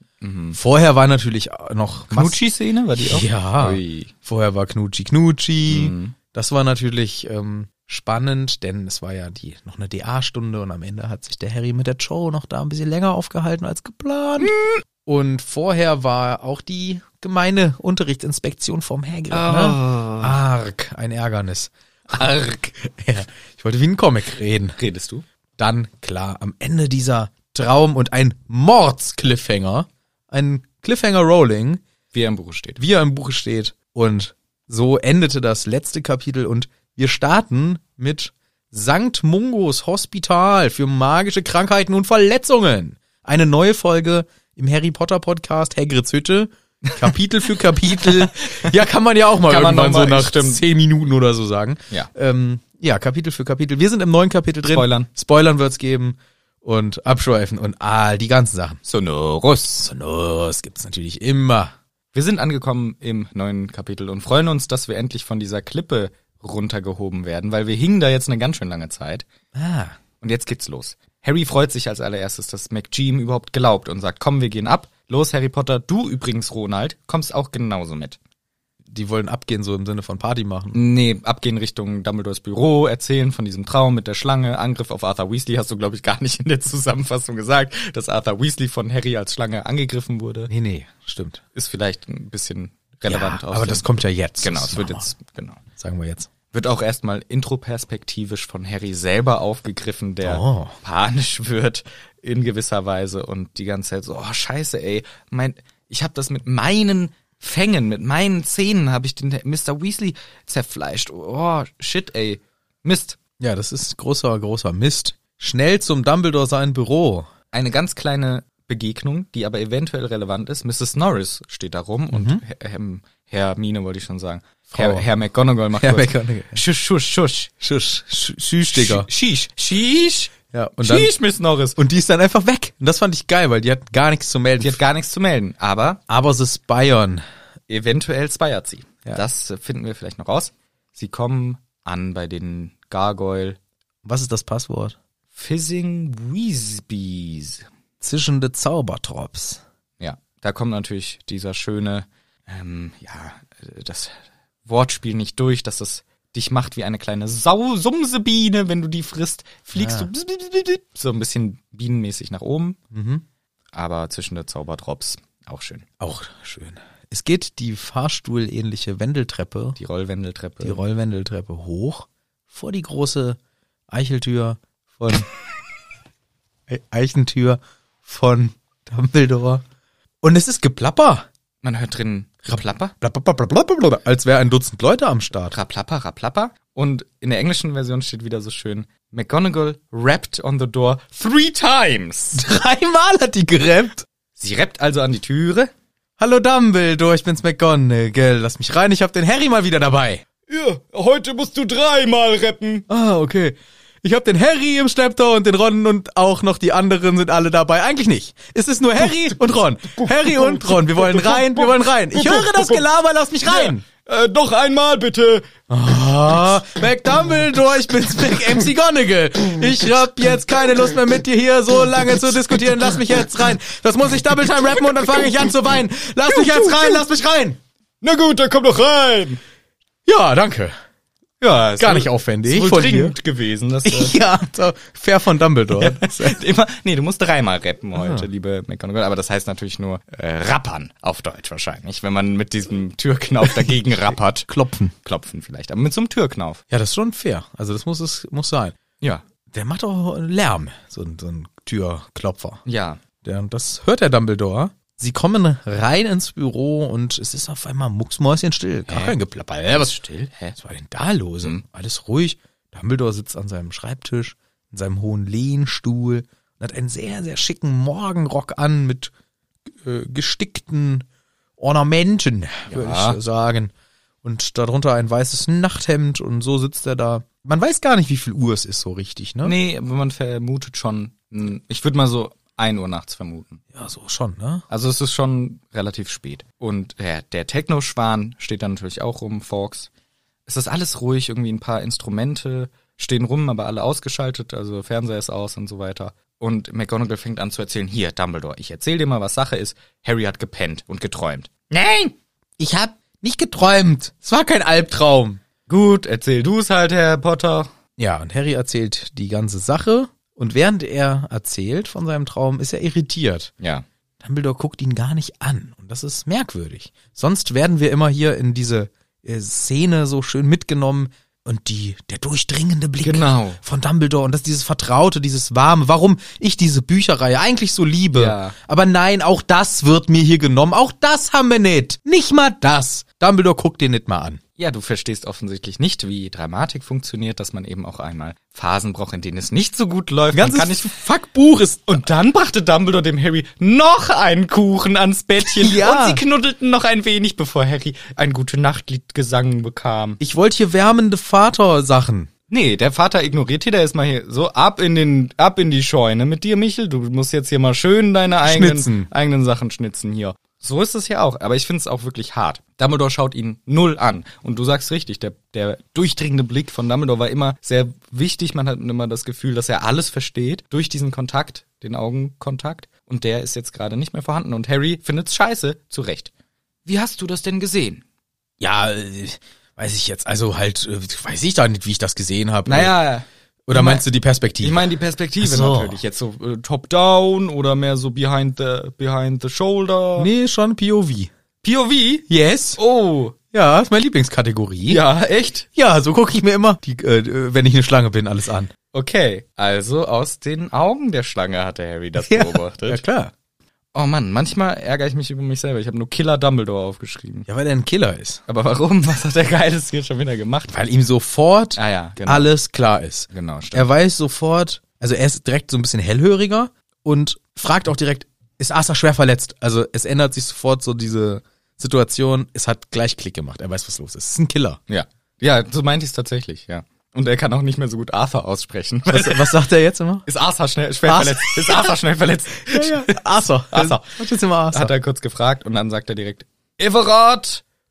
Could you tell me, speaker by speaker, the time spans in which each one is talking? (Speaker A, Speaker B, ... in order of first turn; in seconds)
Speaker A: 0.2-0.6, 2.1-4.1, 5.7-6.2, 14.4-14.7, 19.3-20.4, 24.8-25.2, 32.1-32.8, 46.9-47.1, 47.9-48.7, 49.4-50.6, 54.6-55.1, 58.8-59.9, 62.1-69.2, 70.2-78.2, 80.7-90.5, 91.5-95.6, 96.5-113.2, 117.5-127.5, 128.7-131.8, 134.6-136.0, 137.7-143.6, 145.3-147.7, 150.0-162.8, 163.7-165.8, 169.8-170.8, 181.6-182.9, 185.5-192.4, 194.4-195.7, 200.5-202.9, 209.9-212.8, 213.5-215.5, 226.3-227.0, 228.0-229.4, 231.4-234.2, 235.8-244.5, 245.0-246.6, 252.6-253.0, 258.9-259.1, 259.7-260.6, 272.7-273.2, 279.4-283.6, 284.7-289.9, 290.5-302.1, 305.7-307.7, 313.6-313.8, 323.0-323.6, 328.1-328.6, 334.6-340.9, 341.9-350.2, 352.5-376.3, 376.9-378.0, 382.6-384.1, 384.6-390.3, 391.6-392.2, 392.8-393.4, 394.9-395.7, 398.9-403.0, 403.9-407.5, 408.5-410.7, 411.8-412.5, 413.3-413.9, 424.9-429.6, 430.2-433.2, 433.7-434.1, 434.7-437.6
Speaker B: 0.5-2.4, 3.0-24.8, 25.6-31.8, 32.8-58.8, 59.8-61.7, 69.5-70.0, 78.9-80.8, 90.5-91.4, 93.1-95.1, 95.8-96.3, 100.2-100.8, 113.4-117.3, 122.1-122.4, 124.7-125.1, 125.7-126.6, 127.6-129.1, 130.5-131.1, 131.8-134.8, 136.1-137.2, 144.0-144.9, 148.0-149.6, 159.8-160.1, 162.9-163.2, 166.0-169.8, 170.6-173.4, 173.9-175.3, 176.7-179.6, 180.2-181.2, 183.0-185.6, 192.3-194.1, 196.2-200.2, 202.9-213.8, 215.7-227.6, 230.0-230.8, 231.8-233.1, 233.8-236.4, 238.0-238.3, 244.5-244.9, 246.7-248.7, 249.5-252.6, 253.2-259.9, 260.6-269.1, 269.8-271.1, 271.6-273.7, 274.2-279.6, 283.7-284.6, 302.6-305.4, 308.0-313.5, 314.2-334.4, 340.3-342.0, 345.4-346.2, 350.2-352.3, 358.4-359.1, 378.6-382.9, 383.7-386.0, 390.2-391.3, 392.3-392.8, 393.5-395.0, 395.7-398.7, 402.2-403.3, 407.5-408.4, 410.7-424.8, 429.1-430.2, 431.1-431.9, 432.6-434.9